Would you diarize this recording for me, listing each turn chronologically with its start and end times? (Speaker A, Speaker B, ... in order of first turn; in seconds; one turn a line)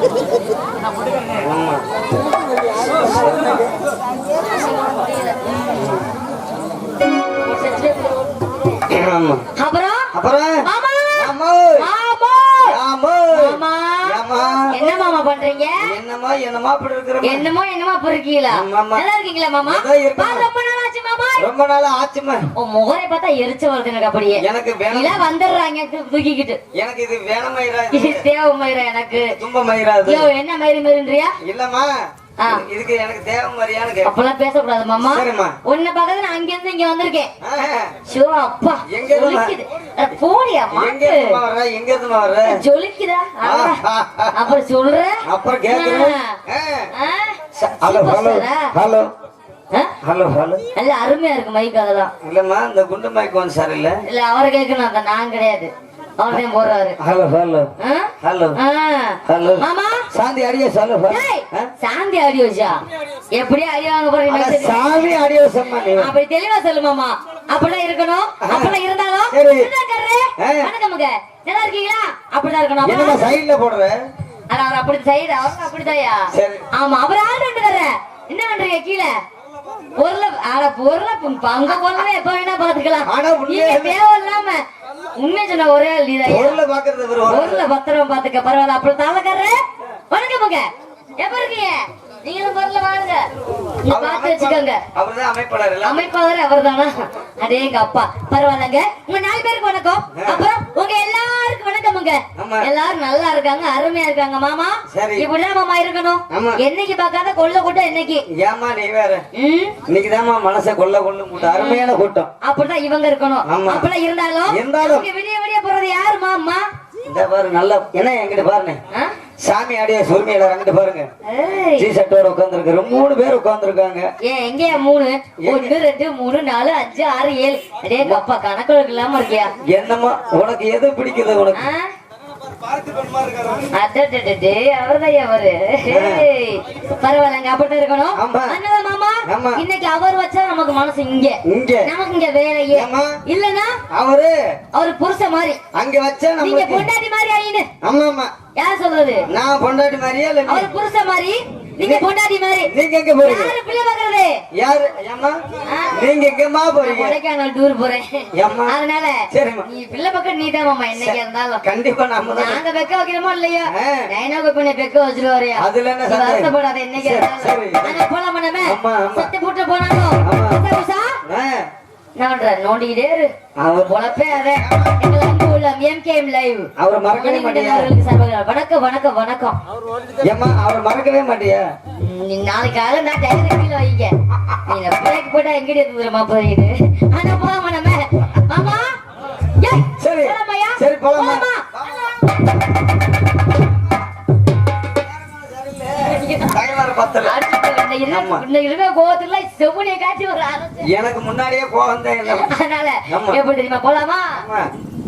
Speaker A: 1.4-1.8
Speaker A: 3.1-3.5
Speaker A: 5.7-6.0
Speaker B: 7.5-8.1
Speaker A: 8.9-9.4
Speaker B: 9.6-10.1
Speaker A: 10.1-10.6
Speaker B: 10.6-12.8
Speaker A: 11.2-11.9
Speaker A: 12.7-14.7
Speaker B: 13.3-14.2
Speaker B: 14.7-15.9
Speaker A: 15.8-17.5
Speaker B: 17.2-21.4
Speaker A: 18.5-19.1
Speaker A: 19.6-20.5
Speaker A: 21.4-22.4
Speaker B: 22.6-26.6
Speaker A: 24.4-25.2
Speaker A: 26.7-28.2
Speaker B: 27.9-29.4
Speaker A: 29.2-30.3
Speaker B: 30.0-31.4
Speaker A: 31.4-34.1
Speaker B: 32.4-32.6
Speaker B: 34.0-37.3
Speaker A: 35.0-35.5
Speaker A: 37.4-37.9
Speaker B: 38.1-41.4
Speaker A: 38.9-39.5
Speaker A: 40.7-42.6
Speaker B: 42.4-43.8
Speaker A: 43.4-44.5
Speaker B: 44.3-46.4
Speaker A: 45.2-46.9
Speaker B: 46.9-48.7
Speaker A: 47.5-49.1
Speaker A: 50.0-50.6
Speaker B: 50.7-52.1
Speaker A: 52.2-54.0
Speaker B: 54.0-57.0
Speaker A: 57.0-58.6
Speaker B: 57.8-60.1
Speaker A: 59.2-61.7
Speaker B: 61.1-62.8
Speaker B: 63.3-64.8
Speaker A: 64.3-66.1
Speaker B: 65.9-73.3
Speaker A: 68.4-68.8
Speaker A: 69.3-69.7
Speaker A: 70.4-70.7
Speaker A: 72.8-74.1
Speaker B: 74.5-79.2
Speaker A: 76.3-76.6
Speaker B: 80.0-84.6
Speaker A: 83.0-84.0
Speaker B: 85.2-86.6
Speaker A: 86.2-87.7
Speaker B: 87.3-93.3
Speaker B: 93.8-94.8
Speaker A: 93.9-96.0
Speaker B: 95.8-108.2
Speaker A: 100.1-100.5
Speaker A: 102.3-102.7
Speaker A: 104.9-105.3
Speaker A: 106.3-106.6
Speaker A: 108.3-109.2
Speaker B: 109.3-109.8
Speaker A: 109.9-112.3
Speaker B: 111.4-111.9
Speaker B: 112.4-116.6
Speaker A: 113.4-113.9
Speaker A: 114.5-115.1
Speaker A: 117.0-118.8
Speaker A: 119.4-121.1
Speaker B: 121.2-121.9
Speaker A: 121.8-124.1
Speaker B: 124.2-129.5
Speaker A: 125.4-125.8
Speaker A: 129.6-131.6
Speaker B: 131.5-131.9
Speaker A: 133.0-133.6
Speaker B: 133.7-143.8
Speaker A: 135.9-136.2
Speaker A: 138.1-138.6
Speaker A: 139.3-139.6
Speaker A: 141.4-141.9
Speaker A: 142.7-143.2
Speaker A: 143.9-144.3
Speaker B: 144.7-145.6
Speaker A: 145.7-146.9
Speaker B: 146.4-147.7
Speaker A: 147.8-148.3
Speaker B: 148.5-149.3
Speaker A: 149.3-150.7
Speaker B: 150.4-154.4
Speaker A: 151.8-152.1
Speaker A: 152.7-153.5
Speaker A: 154.5-155.4
Speaker B: 155.7-156.0
Speaker A: 155.9-157.2
Speaker B: 156.8-161.6
Speaker A: 158.3-158.7
Speaker A: 159.3-159.6
Speaker A: 160.9-162.6
Speaker B: 162.3-171.2
Speaker A: 163.7-164.1
Speaker A: 165.6-168.0
Speaker A: 168.6-169.3
Speaker A: 170.2-170.6
Speaker A: 171.2-171.7
Speaker B: 172.2-173.3
Speaker A: 173.6-174.9
Speaker B: 173.8-179.6
Speaker A: 176.8-177.9
Speaker A: 180.2-181.7
Speaker B: 182.0-188.9
Speaker B: 189.6-192.3
Speaker A: 189.9-192.2
Speaker A: 195.0-197.3
Speaker B: 196.0-196.6
Speaker B: 197.2-200.9
Speaker A: 198.1-198.4
Speaker A: 200.8-202.5
Speaker B: 202.3-204.4
Speaker A: 203.1-203.4
Speaker A: 204.3-204.7